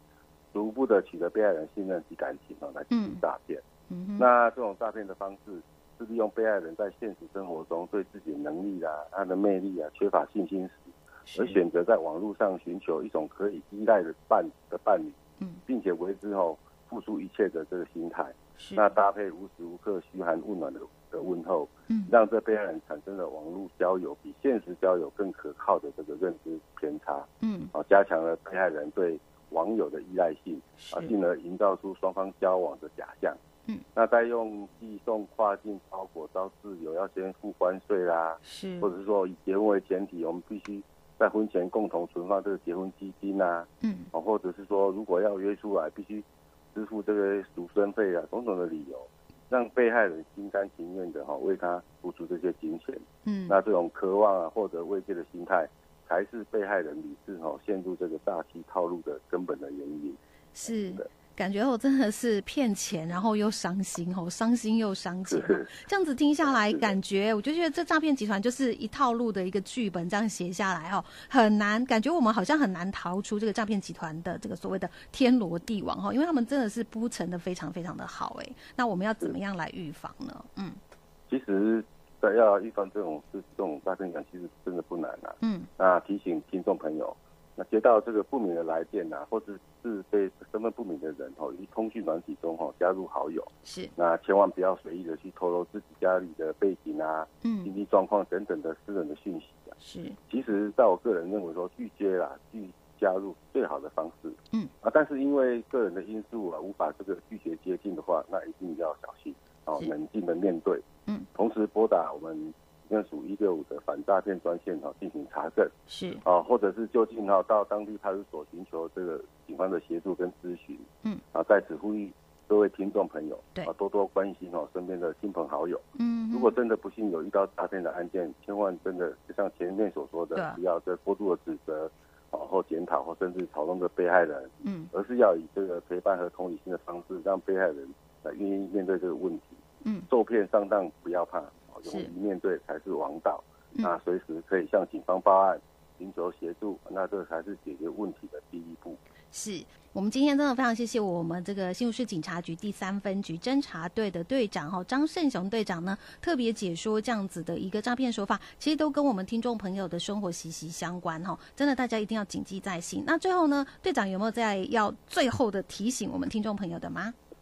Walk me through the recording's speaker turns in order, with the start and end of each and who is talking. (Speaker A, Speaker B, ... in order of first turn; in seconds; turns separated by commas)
Speaker A: 0.5-3.6, Speaker B: 2.9-3.2, Speaker B: 3.9-4.2, Speaker A: 4.2-33.4, Speaker B: 11.3-11.6, Speaker B: 18.6-18.9, Speaker B: 27.4-27.7, Speaker B: 30.8-31.1, Speaker A: 34.0-61.1, Speaker B: 38.4-38.9, Speaker B: 43.8-44.1, Speaker B: 53.2-53.5, Speaker B: 60.5-80.8, Speaker A: 65.3-65.7, Speaker A: 66.4-67.0, Speaker A: 81.3-99.7, Speaker B: 85.4-85.7, Speaker B: 93.6-93.9, Speaker B: 97.4-97.7, Speaker B: 99.8-100.2, Speaker A: 100.3-115.7, Speaker B: 115.9-116.2, Speaker A: 116.2-149.0, Speaker B: 126.0-126.5, Speaker B: 134.6-134.9, Speaker B: 139.8-140.1, Speaker B: 141.8-142.1, Speaker B: 149.3-167.1